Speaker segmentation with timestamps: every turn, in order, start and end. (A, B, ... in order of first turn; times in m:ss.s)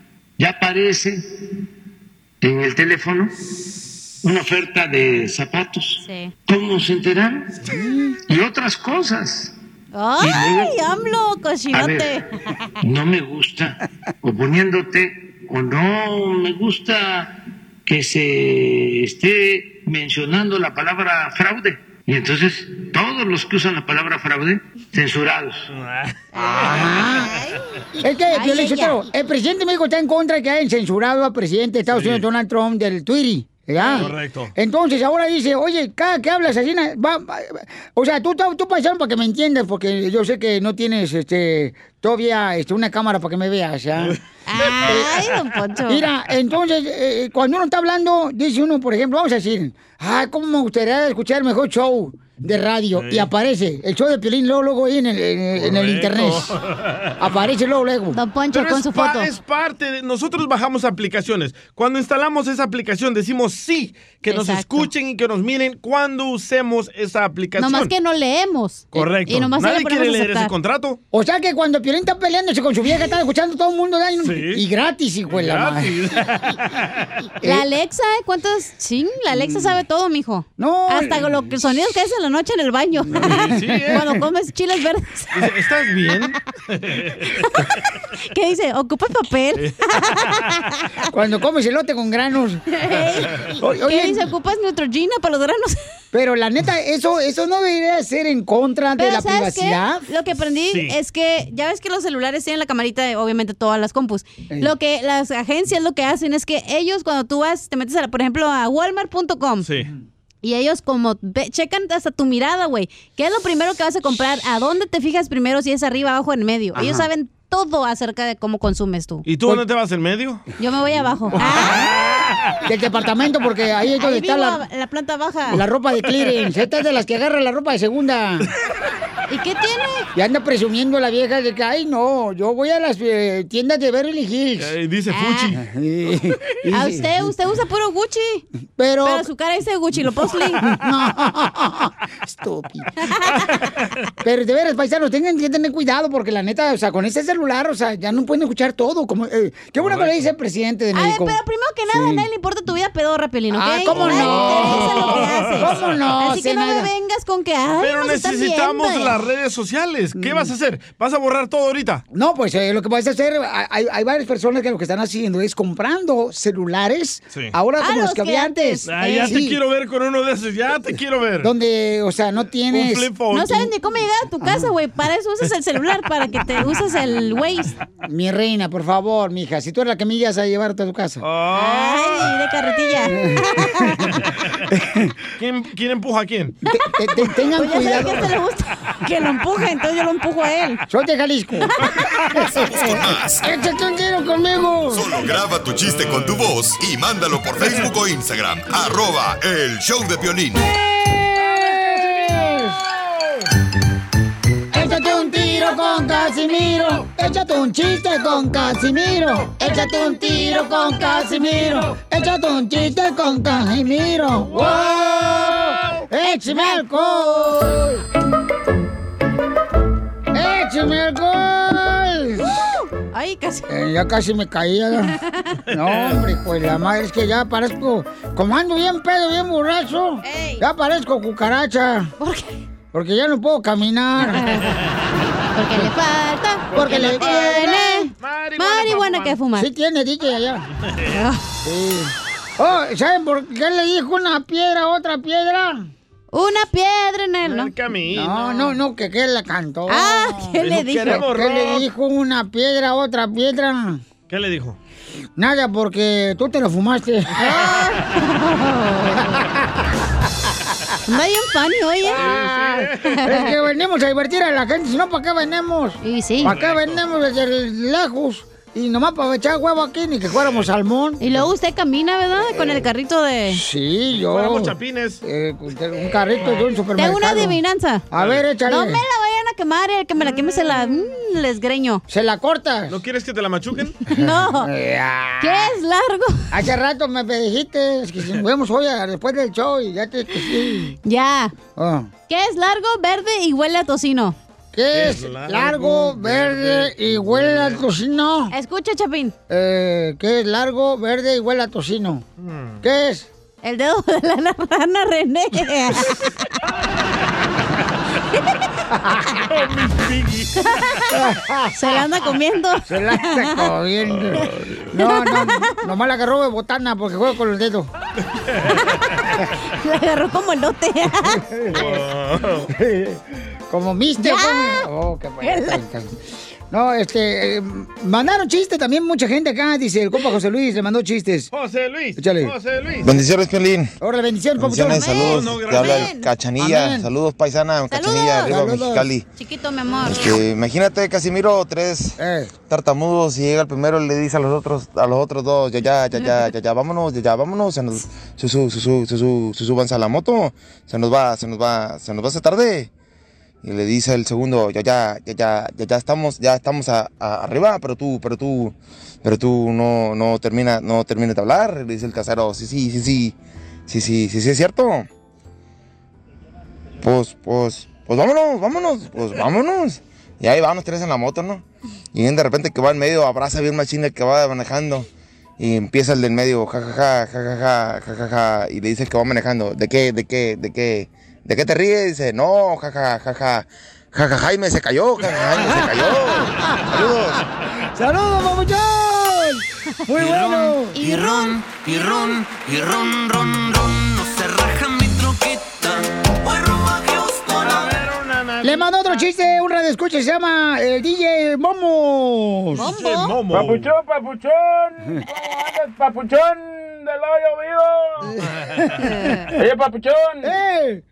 0:00.4-0:01.3 A
0:02.4-0:03.3 A
0:04.2-0:07.6 A
0:06.0-0:06.3 B
0:07.6-0:08.2 C
0:08.3-0:09.5 A
0:09.9-0:12.2 B
0:10.2-0:10.8 A
0:11.7-0:12.2 A
0:12.8-0:25.7 A
0:25.7-0:26.8 D
0:26.3-0:27.6 B
0:26.6-0:27.3 C
0:28.0-0:44.2 C
0:28.3-0:29.0 B
0:31.9-0:32.2 D
0:33.8-0:34.1 B
0:34.0-0:34.5 D
0:44.5-0:46.1 B
0:44.8-0:45.3 C
0:45.9-0:56.5 C
0:52.9-0:53.3 D
0:55.6-0:57.1 D
0:57.2-0:58.2 C
0:58.1-0:59.3 B
0:58.5-1:07.9 D
1:04.3-1:04.9 B
1:07.6-1:10.5 B
1:08.9-1:11.0 D
1:11.1-1:16.2 C
1:14.2-1:14.6 D
1:15.3-1:16.7 D
1:17.4-1:25.4 B
1:19.3-1:19.8 C
1:20.6-1:21.5 C
1:23.1-1:24.2 C
1:23.1-1:24.1 D
1:25.3-1:27.3 D
1:27.4-1:27.6 B
1:28.3-1:30.9 B
1:29.6-1:29.8 D
1:31.1-1:32.6 C
1:32.7-1:35.8 B
1:33.5-1:34.3 C
1:36.1-1:40.1 C
1:39.0-1:49.7 B
1:40.7-1:40.9 D
1:49.6-1:49.9 D
1:50.4-1:59.3 B
1:56.7-1:57.1 C
1:59.2-2:00.4 D
2:00.6-2:01.9 B
2:01.4-2:02.6 D
2:02.6-2:04.6 C
2:04.0-2:05.6 B
2:05.5-2:08.5 C
2:09.3-2:10.1 B
2:10.1-2:14.7 C
2:14.6-2:15.6 D
2:15.1-2:15.5 B
2:15.5-2:17.2 C
2:16.7-2:18.4 B
2:18.8-2:19.3 C
2:19.0-2:20.7 B
2:20.6-2:22.9 C
2:23.0-2:23.6 B
2:24.2-2:31.4 C
2:29.8-2:30.2 D
2:30.9-2:39.2 B
2:31.9-2:32.3 C
2:33.5-2:36.9 C
2:33.9-2:35.9 D
2:37.8-2:42.0 D
2:40.2-2:40.5 C
2:42.1-2:49.6 C
2:47.8-2:49.3 B
2:48.8-2:51.5 D
2:51.4-2:53.1 C
2:52.7-2:53.7 D
2:53.3-2:57.7 B
2:54.4-2:54.7 C
2:58.0-3:01.2 C
3:01.2-3:02.3 D
3:01.5-3:04.2 B
3:03.0-3:04.0 C
3:04.7-3:05.1 C
3:05.4-3:06.5 D
3:06.6-3:08.3 C
3:07.5-3:10.8 B
3:10.9-3:11.8 C
3:12.3-3:15.1 C
3:12.4-3:13.4 E
3:14.9-3:20.6 E
3:17.6-3:17.8 D
3:20.7-3:22.8 C
3:21.7-3:22.4 D
3:22.9-3:23.4 D
3:24.7-3:38.0 C
3:24.8-3:26.7 B
3:29.6-3:31.7 B
3:34.5-3:36.0 D
3:34.7-3:35.2 B
3:36.2-3:37.7 B
3:40.3-3:42.6 C
3:43.0-3:43.7 B
3:43.7-3:45.1 C
3:45.2-3:45.6 B
3:45.7-3:52.1 C
3:45.7-3:46.3 D
3:50.2-3:50.6 B
3:52.2-3:52.6 B
3:52.9-3:54.5 C
3:54.3-3:54.7 B
3:55.5-3:59.7 B
3:56.7-3:59.4 D
3:56.7-3:58.0 C
3:59.5-4:00.6 C
4:01.1-4:01.4 B
4:01.6-4:05.9 C
4:06.3-4:07.7 B
4:07.4-4:08.7 D
4:08.1-4:14.0 C
4:09.9-4:11.3 B
4:10.6-4:11.8 D
4:14.3-4:14.8 D
4:15.4-4:17.5 C
4:17.4-4:19.4 B
4:21.1-4:22.3 B
4:22.1-4:31.2 C
4:22.1-4:23.4 D
4:23.0-4:23.5 B
4:26.0-4:26.6 B
4:26.4-4:27.0 D
4:31.2-4:33.6 B
4:32.5-4:32.9 C
4:33.5-4:37.6 C
4:34.1-4:35.2 D
4:37.0-4:38.1 B
4:38.1-4:39.0 C
4:38.1-4:38.4 D
4:38.6-4:42.0 B
4:42.1-4:43.0 C
4:42.9-4:44.0 D
4:44.1-4:44.7 B
4:44.2-4:45.7 C
4:45.4-4:46.5 B
4:46.5-4:50.9 C
4:51.0-4:51.5 B
4:51.8-4:52.1 C
4:52.3-4:54.3 B
4:54.7-4:58.5 C
4:54.9-4:57.8 D
4:58.5-4:59.3 B
4:59.5-5:02.2 C
5:02.4-5:02.8 D
5:02.8-5:03.3 C
5:03.6-5:06.3 B
5:08.9-5:09.5 C
5:09.5-5:10.8 D
5:10.6-5:11.2 B
5:11.1-5:11.7 C
5:11.7-5:13.7 B
5:12.9-5:17.9 C
5:14.1-5:14.9 D
5:15.0-5:15.7 B
5:18.4-5:18.8 D
5:18.7-5:21.8 B
5:21.2-5:22.0 C
5:21.7-5:22.7 D
5:22.7-5:26.1 C
5:24.2-5:24.9 B
5:25.4-5:25.8 B
5:26.7-5:31.5 C
5:31.5-5:33.2 D
5:32.2-5:32.5 C
5:33.0-5:33.9 F
5:34.0-5:35.4 C
5:34.6-5:39.2 F
5:34.9-5:36.3 B
5:35.2-5:36.1 D
5:36.6-5:37.1 C
5:37.9-5:38.6 B
5:38.4-5:39.1 C
5:39.3-5:40.4 B
5:40.0-5:52.9 F
5:42.2-5:42.5 C
5:53.6-6:03.3 F
6:03.9-6:05.1 F
6:07.0-6:15.1 F
6:15.6-6:27.4 F
6:25.5-6:27.4 C
6:27.9-6:31.0 C
6:30.2-6:38.0 G
6:30.9-6:32.3 B
6:37.6-6:39.3 D
6:38.6-6:42.9 C
6:42.7-6:43.4 B
6:42.8-6:43.9 D
6:43.5-6:48.3 H
6:48.3-6:49.3 C
6:49.0-6:49.5 B
6:49.6-6:50.6 H
6:50.4-6:51.0 C